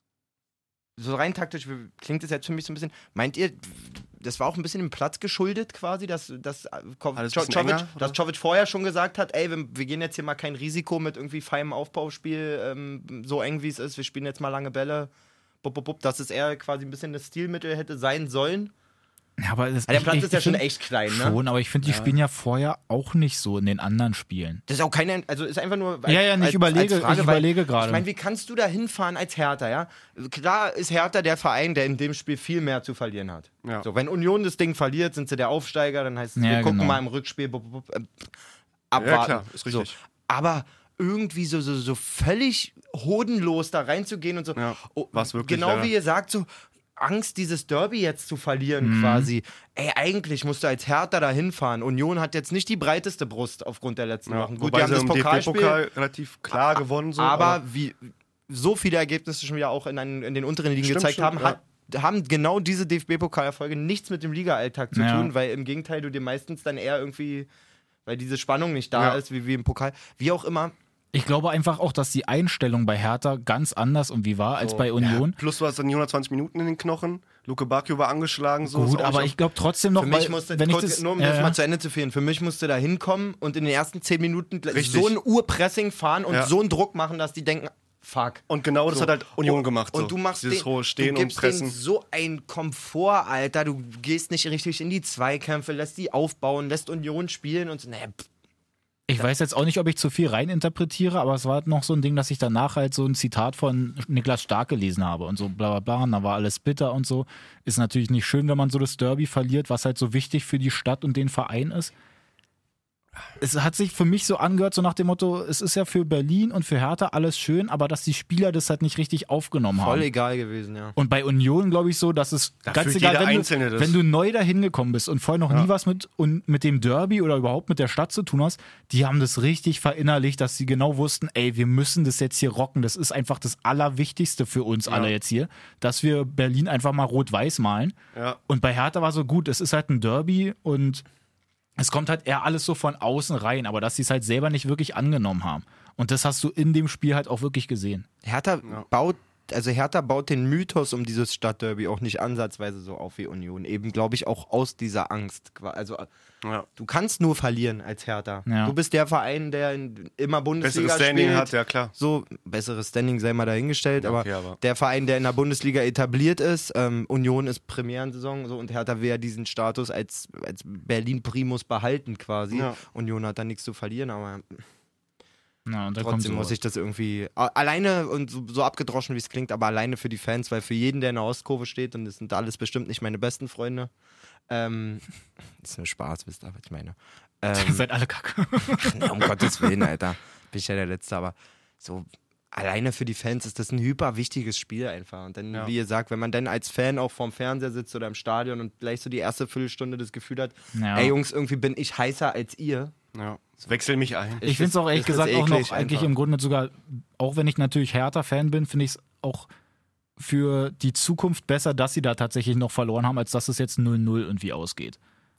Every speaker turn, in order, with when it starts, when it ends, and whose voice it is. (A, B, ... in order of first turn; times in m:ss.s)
0:01.0-0:15.1 A
0:07.2-0:08.2 B
0:15.6-0:18.7 A
0:19.4-0:24.6 C
0:19.9-0:21.4 A
0:21.8-0:22.1 B
0:24.7-0:38.3 A
0:26.0-0:28.0 C
0:36.4-0:37.0 C
0:38.9-0:55.8 A
0:39.0-0:39.9 B
0:44.6-0:45.9 B
0:48.8-0:49.3 C
0:54.3-0:57.6 B
0:57.2-1:07.5 A
1:00.8-1:01.6 B
1:04.9-1:05.3 C
1:08.0-1:10.7 A
1:08.9-1:09.2 B
1:11.1-1:15.4 C
1:15.0-1:19.3 B
1:18.6-1:21.6 C
1:20.0-1:38.2 A
1:24.7-1:25.2 B
1:28.5-1:31.7 B
1:39.1-1:51.9 C
1:53.4-2:00.1 C
1:59.8-2:01.0 A
2:01.0-2:18.0 C
2:02.7-2:04.0 B
2:14.8-2:15.1 B
2:18.1-2:18.4 B
2:18.5-2:21.0 C
2:21.8-2:28.0 C
2:28.2-2:36.1 A
2:36.8-2:54.6 A
2:38.4-2:38.7 C
2:40.6-2:41.9 B
2:44.0-2:44.6 B
2:52.5-2:52.8 B
2:55.6-2:56.6 C
2:56.0-3:03.9 A
3:04.5-3:05.0 A
3:05.6-3:07.8 A
3:07.5-3:09.7 C
3:08.7-3:22.9 A
3:20.7-3:21.1 C
3:23.1-3:24.4 B
3:24.4-3:26.1 A
3:24.4-3:29.5 C
3:30.2-3:35.0 C